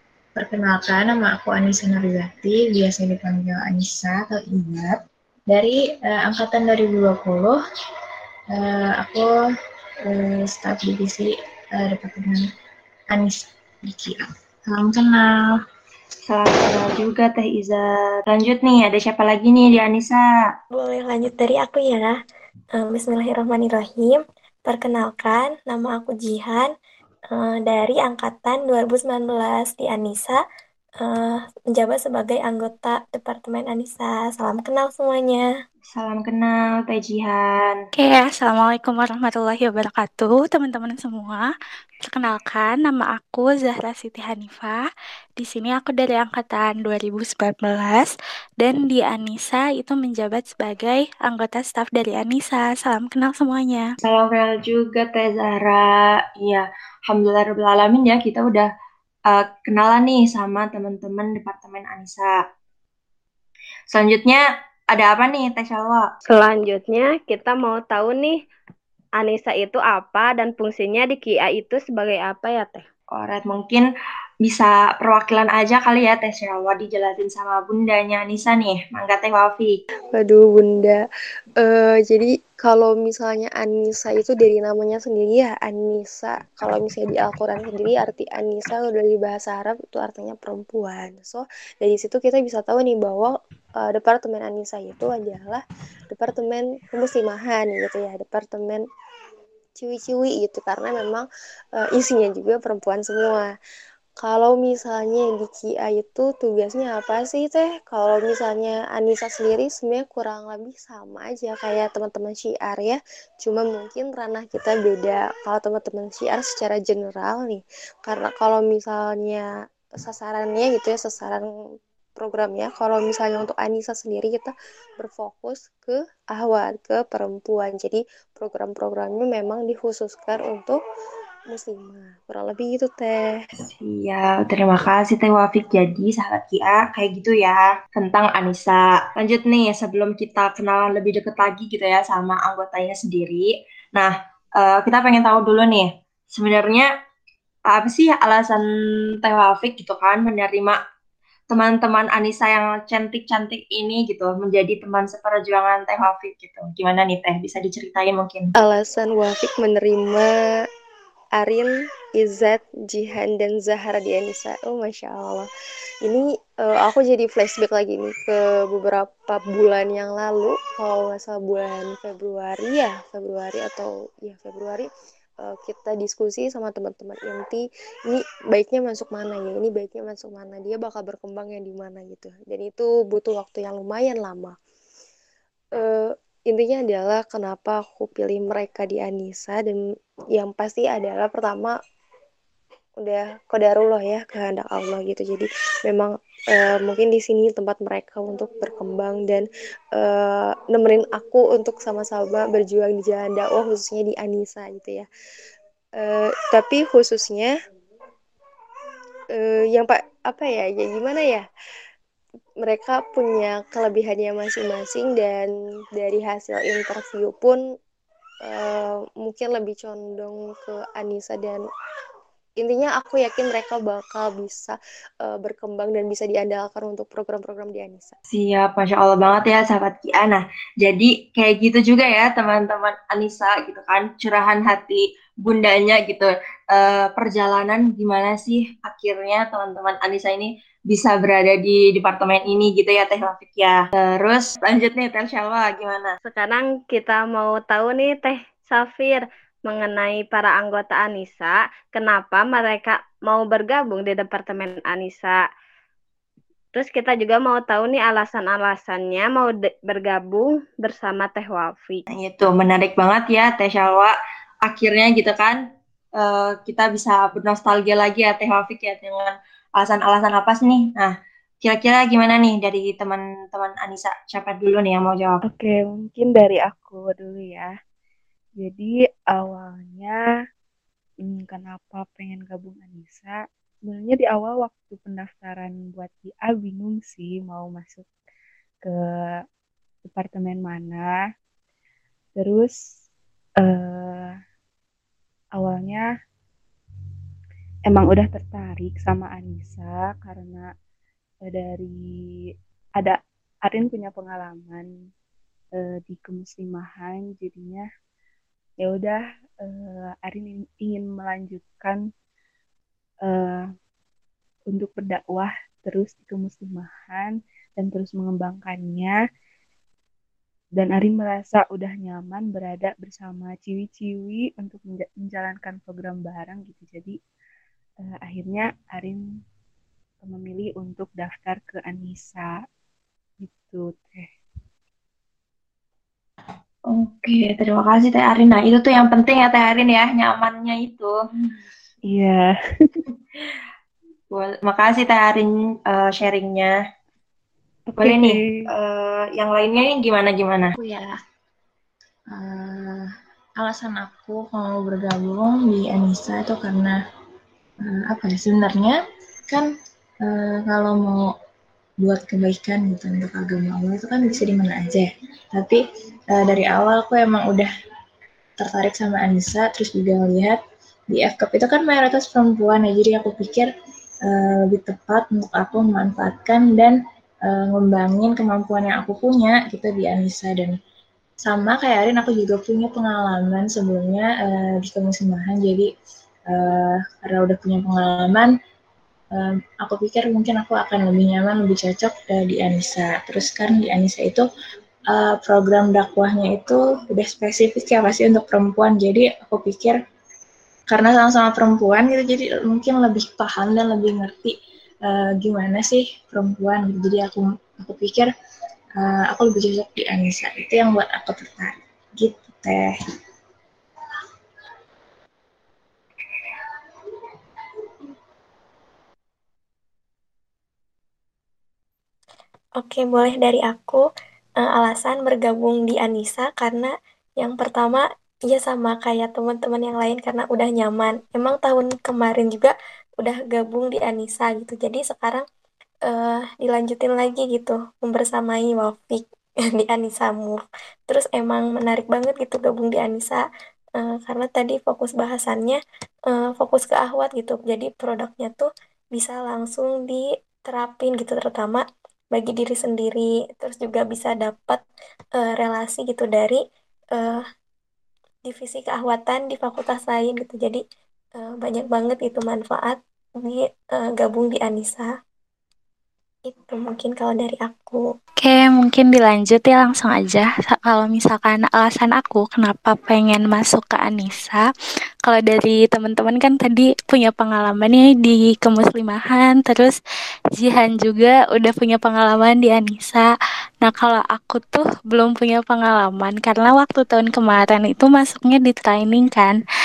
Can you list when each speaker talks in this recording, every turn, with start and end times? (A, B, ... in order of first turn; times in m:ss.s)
0:00.4-0:07.6 A
0:08.5-0:09.3 A
0:10.1-0:12.5 A
0:13.1-0:15.6 A
0:16.3-0:20.2 B
0:20.7-0:22.2 C
0:22.8-0:26.7 C
0:27.3-0:30.4 C
0:31.0-0:35.4 C
0:35.9-0:37.8 B
0:38.0-0:41.5 D
0:42.0-0:44.8 D
0:45.4-0:53.9 D
0:54.0-0:58.7 B
0:59.3-1:02.4 B
1:03.9-1:06.1 B
1:06.3-1:08.4 E
1:09.2-1:12.9 E
1:13.1-1:13.8 B
1:14.4-1:19.8 B
1:20.1-1:21.0 F
1:21.6-1:38.9 F
1:39.8-1:43.5 F
1:44.2-2:01.5 F
2:02.2-2:10.8 F
2:11.5-2:13.4 F
2:13.7-2:26.9 B
2:27.7-2:28.7 B
2:29.2-2:30.8 B
2:31.5-2:38.5 B
2:38.6-2:40.7 F
2:41.4-2:45.5 F
2:46.0-2:54.9 F
2:55.4-3:04.6 F
3:05.8-3:09.8 F
3:10.3-3:11.8 F
3:13.0-3:25.1 F
3:26.0-3:27.5 F
3:29.3-3:31.4 F
3:32.6-3:37.6 F
3:38.4-3:41.6 F
3:42.6-3:48.1 F
3:48.3-4:06.1 B
4:06.2-4:15.5 E
4:16.7-4:22.0 E
4:22.1-4:25.6 B
4:26.2-4:35.4 B
4:35.4-4:37.7 G
4:38.6-4:40.2 G
4:41.2-4:48.1 G
4:48.8-4:49.4 G
4:50.0-4:51.2 G
4:52.4-4:52.9 G
4:53.6-4:54.3 G
4:55.6-4:56.1 G
4:57.9-5:00.7 G
5:01.5-5:02.0 G
5:03.0-5:04.9 G
5:05.8-5:07.9 G
5:08.8-5:12.0 G
5:13.3-5:13.7 G
5:14.7-5:19.2 G
5:20.8-5:27.2 G
5:28.0-5:29.2 G
5:30.2-5:32.5 G
5:33.4-5:34.3 G
5:36.9-5:41.1 B
5:42.1-5:43.0 G
5:44.3-5:46.8 B
5:48.0-5:48.7 G
5:48.0-5:50.7 B
5:50.8-5:51.2 A
5:52.3-5:57.0 A
5:57.8-5:59.0 A
6:00.2-6:01.3 A
6:02.0-6:05.8 A
6:06.3-6:07.7 A
6:08.6-6:13.7 A
6:14.2-6:20.8 A
6:21.4-6:25.9 A
6:26.5-6:28.5 A
6:29.3-6:34.4 A
6:35.1-6:40.0 A
6:40.9-6:44.5 A
6:45.1-6:48.3 A
6:49.0-6:52.9 A
7:02.8-7:04.0 C
7:04.6-7:15.4 C
7:16.1-7:23.4 C
7:24.0-7:34.8 C
7:35.4-7:36.6 C
7:37.2-7:37.4 C
7:38.4-7:40.8 C
7:41.4-7:45.1 C
7:46.5-7:48.0 C
7:48.4-7:54.7 D
7:55.2-8:00.0 D
8:00.6-8:03.3 D
8:03.8-8:09.6 D